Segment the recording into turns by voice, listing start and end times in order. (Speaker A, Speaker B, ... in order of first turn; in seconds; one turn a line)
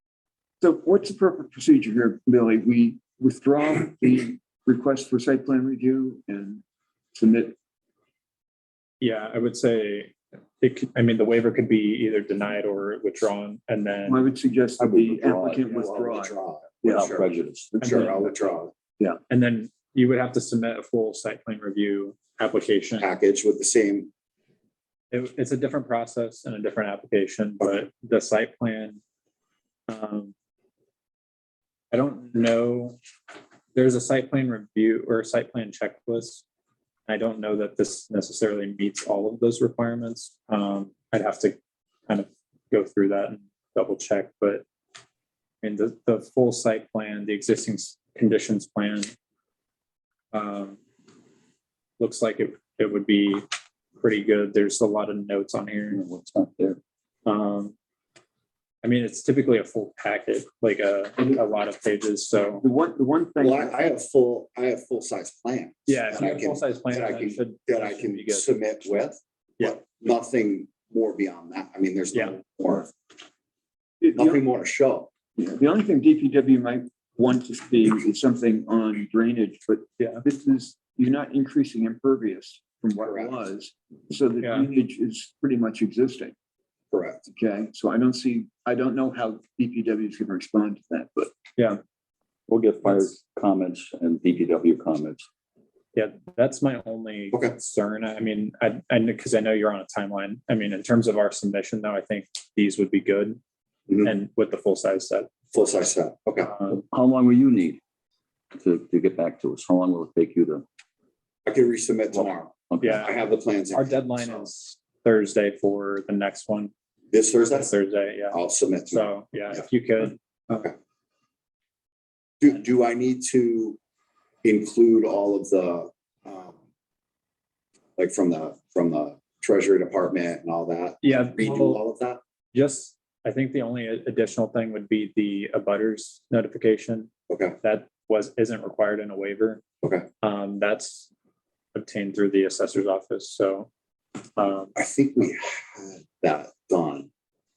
Speaker A: 0.6-6.6
Speaker A: 7.2-7.5
Speaker B: 9.0-14.3
Speaker A: 14.1-17.1
Speaker C: 14.8-15.7
Speaker D: 15.7-17.3
Speaker C: 16.9-17.8
Speaker B: 17.8-18.3
Speaker D: 17.8-18.7
Speaker B: 19.3-23.1
Speaker D: 23.0-24.1
Speaker B: 25.1-29.0
Speaker B: 29.9-30.3
Speaker B: 31.9-33.0
Speaker B: 33.8-36.4
Speaker B: 37.1-44.6
Speaker B: 45.6-49.1
Speaker B: 50.3-50.8
Speaker B: 52.0-53.5
Speaker B: 54.0-56.0
Speaker C: 55.9-56.8
Speaker B: 57.3-57.8
Speaker B: 58.8-62.7
Speaker A: 62.6-63.8
Speaker D: 63.4-72.9
Speaker B: 65.9-68.5
Speaker A: 74.0-74.4
Speaker D: 74.2-75.1
Speaker A: 75.4-86.3
Speaker D: 83.0-83.4
Speaker B: 84.4-84.7
Speaker D: 86.9-87.2
Speaker A: 87.3-91.3
Speaker C: 92.5-95.2
Speaker B: 95.9-103.4
Speaker B: 104.0-105.3
Speaker D: 105.5-106.5
Speaker B: 106.4-106.8
Speaker C: 106.7-107.8
Speaker C: 108.5-110.7
Speaker D: 111.5-114.5
Speaker C: 112.1-113.0
Speaker B: 112.8-113.2
Speaker B: 113.7-116.7
Speaker D: 117.1-117.7
Speaker B: 117.5-120.6
Speaker D: 118.3-119.6
Speaker D: 122.4-123.8
Speaker D: 124.4-126.6
Speaker D: 128.0-132.2
Speaker B: 131.0-131.8
Speaker B: 132.5-137.1
Speaker D: 137.3-137.6
Speaker B: 137.6-139.6
Speaker B: 140.2-141.1
Speaker B: 141.8-143.7
Speaker B: 144.4-144.7
Speaker D: 144.8-147.1